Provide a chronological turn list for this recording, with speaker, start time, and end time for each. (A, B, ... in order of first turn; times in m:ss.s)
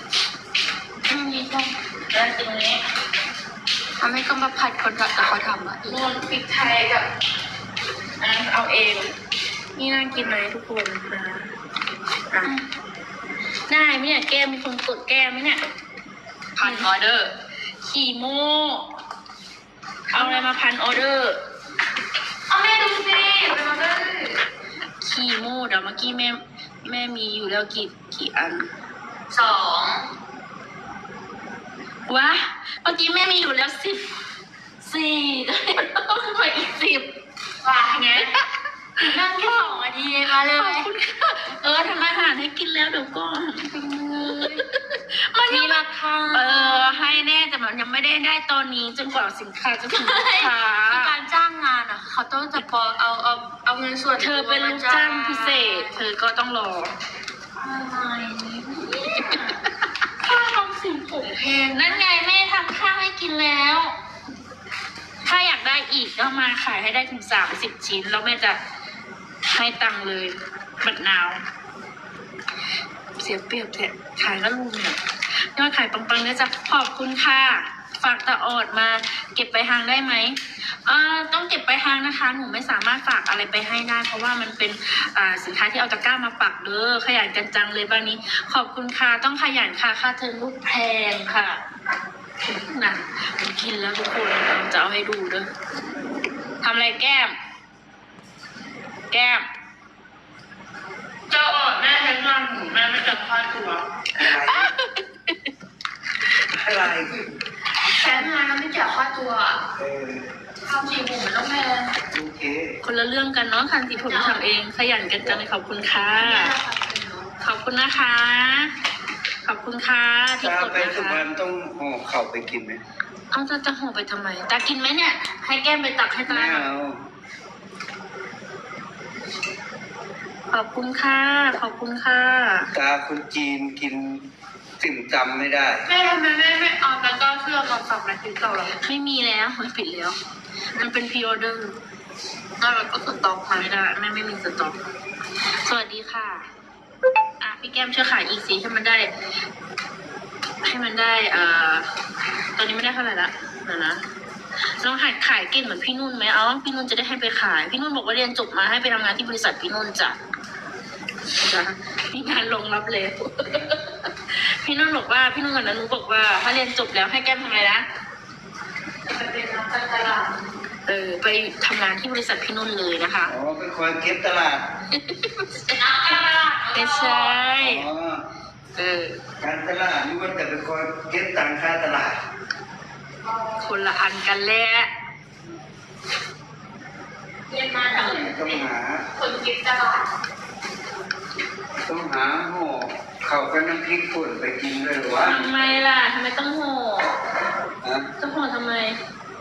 0:01.1-0:02.8 A
0:04.0-0:06.0 B
0:05.8-0:07.0 A
0:08.2-0:09.1 A
0:09.8-0:11.5 A
0:13.7-0:15.6 A
0:16.6-0:17.3 B
0:16.6-0:16.9 A
0:17.8-0:18.9 A
0:20.1-0:20.5 B
0:20.1-0:21.4 A
0:22.5-0:24.4 B
0:25.0-0:28.7 A
0:29.3-0:30.0 B
0:32.1-0:34.1 A
0:34.8-0:37.1 A
0:37.6-0:38.4 B
0:38.2-0:38.4 A
0:39.0-0:51.1 A
0:39.1-0:40.9 B
0:44.2-0:44.6 B
0:45.5-0:47.2 B
0:49.9-0:56.0 B
0:54.2-0:56.9 A
0:57.6-0:59.6 B
0:59.0-0:59.4 A
1:00.2-1:02.0 B
1:01.7-1:03.9 A
1:05.2-1:08.6 A
1:09.5-1:11.4 A
1:13.2-1:31.6 A
1:32.4-1:35.5 A
1:36.6-1:37.3 A
1:39.1-1:39.4 A
1:41.3-1:42.4 B
1:41.5-1:45.5 A
1:44.2-1:44.7 C
1:46.5-1:47.3 C
1:47.9-1:49.6 B
1:49.8-1:50.3 C
1:50.6-1:51.9 B
1:52.1-1:52.7 C
1:52.8-1:56.5 A
1:53.9-1:54.5 B
1:56.2-1:57.3 B
1:57.4-1:58.7 A
1:59.4-2:01.2 A
2:00.4-2:02.8 C
2:03.3-2:06.7 A
2:06.3-2:07.0 C
2:10.5-2:12.7 A
2:12.7-2:14.2 C
2:14.8-2:15.9 C
2:15.9-2:18.8 B
2:18.8-2:20.2 A
2:20.7-2:21.8 A
2:22.6-2:23.7 B
2:23.5-2:24.8 A
2:25.6-2:26.4 A
2:27.4-2:29.1 A
2:30.6-2:31.9 A
2:32.6-2:34.0 A
2:34.7-2:40.2 A
2:41.3-2:47.8 A
2:49.1-2:50.4 B
2:50.9-2:53.3 A
2:53.3-2:54.7 C
2:54.9-2:56.2 A
2:55.6-2:57.4 B
2:56.7-2:57.9 A
2:57.6-2:58.2 C
2:58.8-2:59.2 A
2:59.4-3:02.2 C
3:03.2-3:03.6 B
3:03.6-3:04.9 A
3:07.5-3:08.6 B
3:07.9-3:08.2 A
3:08.1-3:09.1 C
3:09.2-3:10.1 B
3:11.9-3:15.5 C
3:15.2-3:17.2 A
3:17.8-3:18.1 C
3:18.2-3:19.0 A